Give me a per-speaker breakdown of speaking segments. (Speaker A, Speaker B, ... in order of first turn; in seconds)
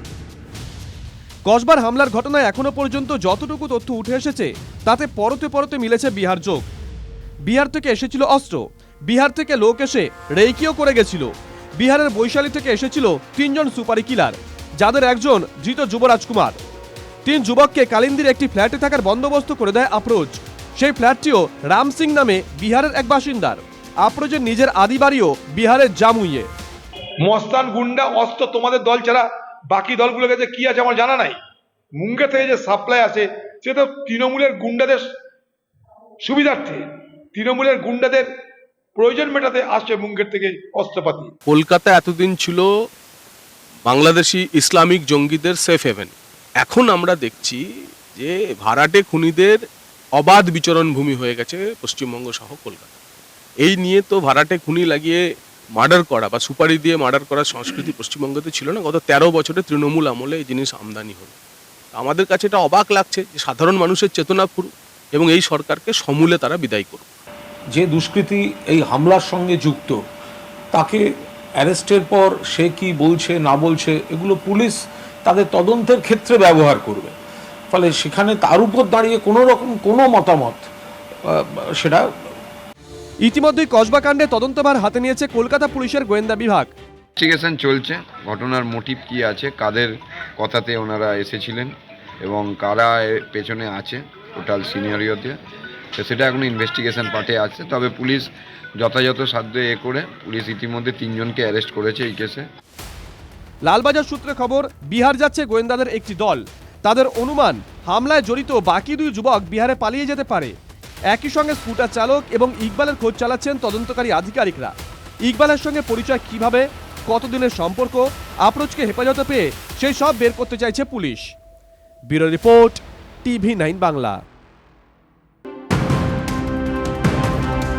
Speaker A: 1.4-6.7, 7.5-16.6, 17.2-26.5, 83.2-86.7, 103.6-110.5, 111.1-121.3, 122.1-124.2
Speaker B: 27.2-31.4, 32.0-35.1, 36.2-38.3, 39.0-41.3
Speaker C: 41.5-42.7, 43.8-47.6, 48.1-52.9, 53.6-61.3, 61.9-67.1
Speaker D: 67.7-70.0, 70.7-71.0, 71.6-77.1, 77.7-80.6, 81.3-82.0
Speaker E: 87.2-91.7, 92.2-95.4, 96.0-102.5